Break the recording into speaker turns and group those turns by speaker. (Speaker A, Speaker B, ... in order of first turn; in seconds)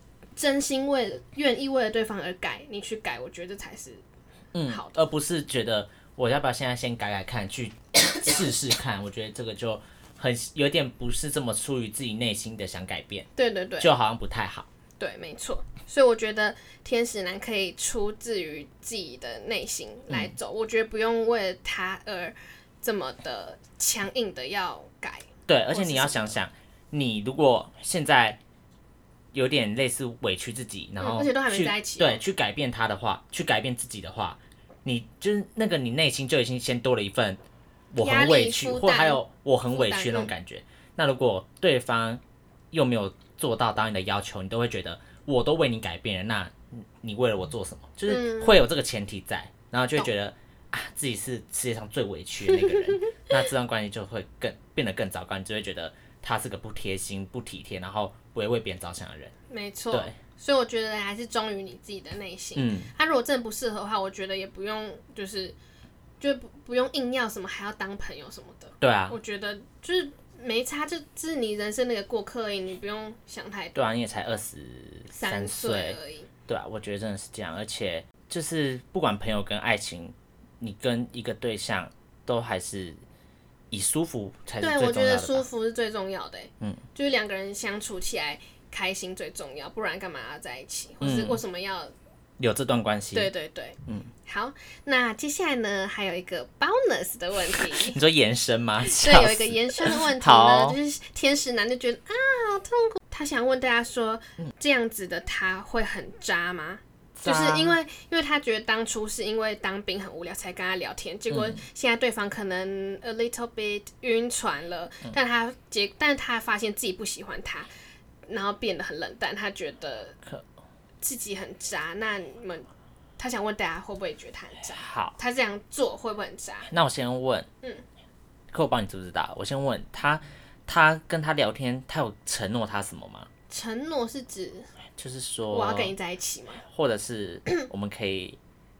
Speaker A: 0.3-4.0, 4.7-5.0, 13.3-13.9, 15.0-26.4, 31.0-32.2, 38.0-40.3, 48.1-48.6, 52.5-53.2, 59.5-65.6, 66.2-73.9, 75.1-76.3, 84.6-91.9, 93.1-98.0, 98.9-117.7, 118.3-120.2, 121.0-126.7, 133.5-134.7, 135.5-136.6
Speaker B: 4.5-13.3, 13.8-14.7, 20.1-20.3, 25.5-28.4, 29.3-37.4, 37.9-59.3, 62.5-62.9, 68.8-69.2, 73.8-83.0, 83.7-85.4, 91.0-91.4, 92.4-93.3, 97.7-100.8, 107.1-107.8, 111.3-111.6, 124.8-125.2, 126.7-127.5, 128.5-133.3, 135.0-135.9, 136.7-138.4